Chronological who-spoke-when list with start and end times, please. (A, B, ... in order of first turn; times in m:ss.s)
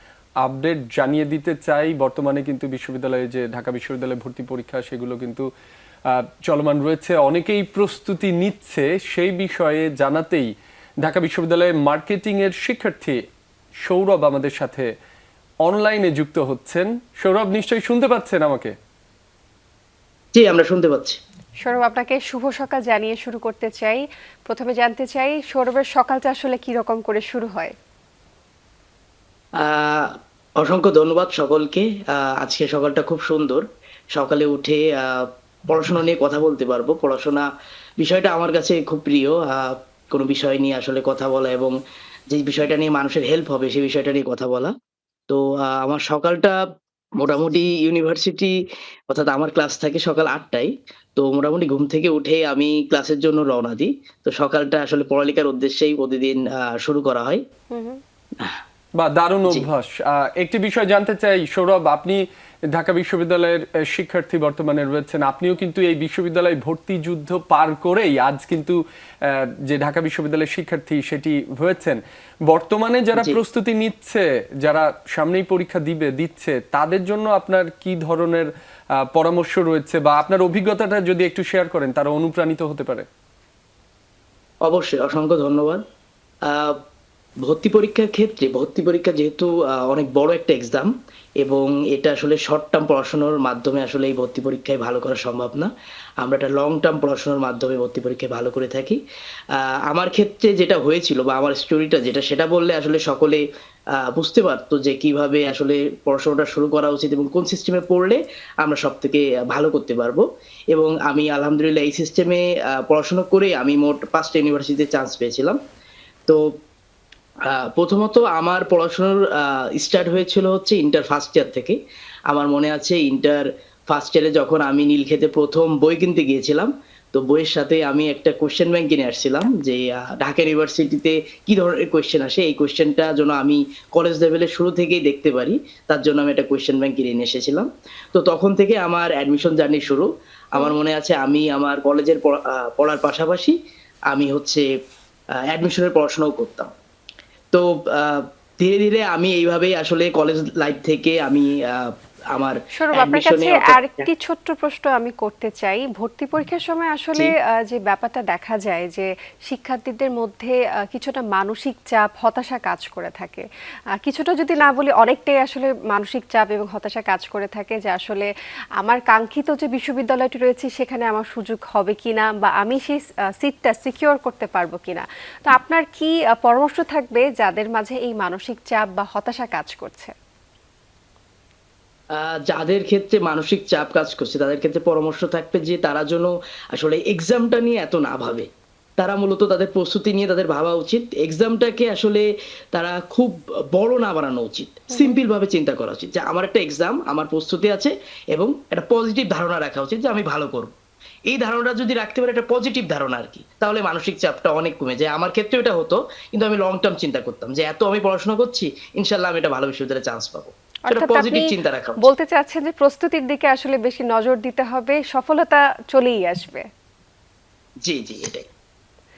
0:00.4-0:05.4 A
0:06.5-0:10.5 A
0:11.0-0:13.2 A
0:13.8-0:14.9 A
0:15.7-0:18.7 A
0:20.3-0:21.2 B
0:21.6-0:27.7 C
0:29.6-0:33.6 B
0:34.1-0:37.5 B
0:38.0-0:41.7 B
0:42.3-0:44.7 B
0:45.3-0:46.6 B
0:47.2-0:48.5 B
0:49.1-0:57.4 B
0:57.7-0:58.0 C
0:59.0-1:02.2 A
1:02.7-1:08.8 A
1:09.7-1:18.5 A
1:19.1-1:23.0 A
1:24.6-1:25.8 B
1:26.5-1:26.8 B
1:27.4-1:30.9 B
1:31.4-1:35.7 B
1:36.2-1:39.0 B
1:39.5-1:43.4 B
1:44.0-1:55.6 B
1:57.5-2:01.8 B
2:02.3-2:23.5 B
2:24.1-2:24.6 B
2:25.5-2:26.7 B
2:27.5-2:34.1 B
2:32.7-2:43.4 C
2:44.0-2:48.3 C
2:48.8-3:00.1 C
3:02.2-3:08.5 B
3:09.0-3:20.7 B
3:14.9-3:15.2 C
3:21.3-3:32.1 B
3:30.9-3:31.5 C
3:32.0-3:36.6 C
3:37.8-3:38.5 B